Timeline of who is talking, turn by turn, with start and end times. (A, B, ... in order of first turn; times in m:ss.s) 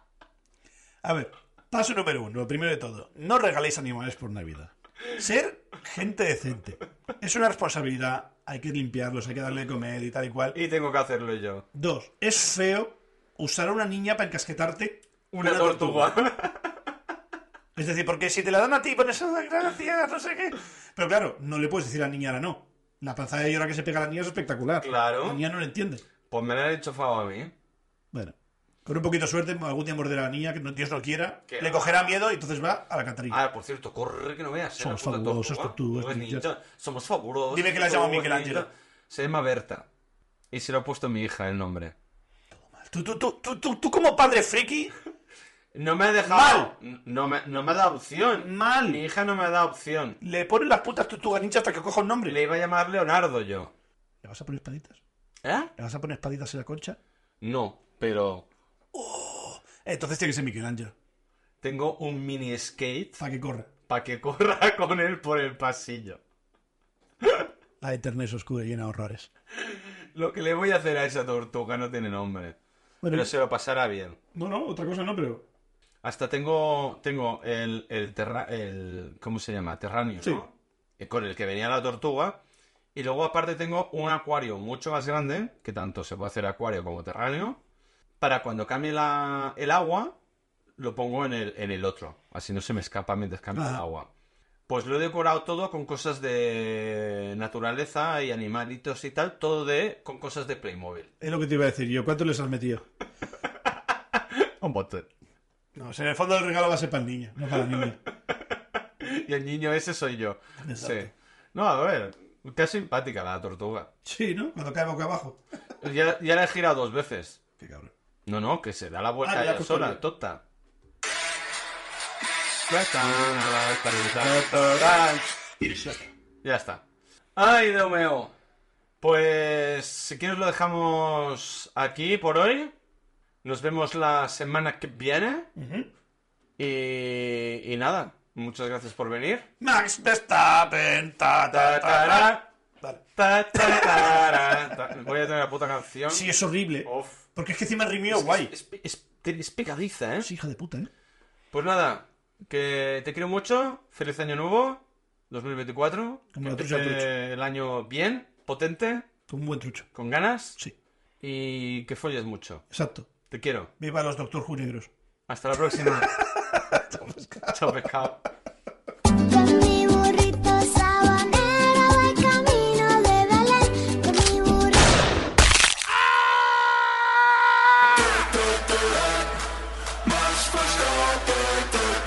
0:01.0-0:10.6 A
0:10.5-0:11.6 B
0:11.7-0:16.1 A
0:15.3-0:16.8 B
0:17.8-0:26.0 A
0:24.8-0:25.4 B
0:26.3-0:27.5 B
0:28.8-0:33.4 A
0:31.5-0:32.1 B
0:33.3-0:39.9 B
0:34.8-0:36.5 A
0:37.5-0:38.7 A
0:40.5-0:42.0 B
0:42.7-0:44.9 A
0:45.7-0:50.2 B
0:46.2-0:46.7 A
0:48.4-0:49.0 A
0:50.2-0:52.4 A
0:52.3-0:53.7 B
0:54.2-0:55.0 A
0:55.4-0:55.7 B
0:55.8-0:57.0 A
0:57.4-0:58.5 B
0:58.9-1:00.9 A
1:01.6-1:03.2 B
1:03.2-1:03.7 A
1:03.9-1:06.2 B
1:07.2-1:07.5 B
1:07.8-1:09.3 A
1:09.6-1:12.6 B
1:13.0-1:13.3 A
1:13.1-1:14.2 B
1:14.3-1:15.4 A
1:16.0-1:22.4 B
1:23.0-1:27.6 B
1:28.2-1:30.2 B
1:30.8-1:34.1 B
1:33.5-1:33.8 A
1:34.7-1:41.1 B
1:41.2-1:42.9 A
1:44.2-1:45.1 B
1:45.8-1:48.0 A
1:49.0-1:53.9 B
1:50.6-1:51.1 A
1:54.0-1:55.4 A
1:55.8-1:57.4 B
1:57.6-1:57.9 A
1:58.3-2:00.4 B
1:59.2-2:00.0 A
2:02.7-2:05.3 B
2:04.2-2:05.0 A
2:05.6-2:06.1 A
2:06.4-2:06.8 B
2:07.4-2:08.3 B
2:09.0-2:12.7 B
2:13.4-2:15.5 B
2:15.6-2:15.9 A
2:16.6-2:19.5 B
2:19.6-2:25.1 A
2:21.5-2:22.5 B
2:23.2-2:26.3 B
2:26.1-2:28.5 A
2:26.8-2:27.2 B
2:28.1-2:30.3 B
2:30.2-2:30.9 A
2:31.5-2:39.1 B
2:36.3-2:37.1 A
2:39.3-2:39.9 A
2:39.9-2:40.6 B
2:41.2-2:42.7 B
2:42.7-2:43.1 A
2:43.3-2:43.7 B
2:43.8-2:44.9 A
2:45.3-2:46.2 B
2:45.7-2:47.9 A
2:47.4-2:48.3 B
2:49.2-2:55.0 C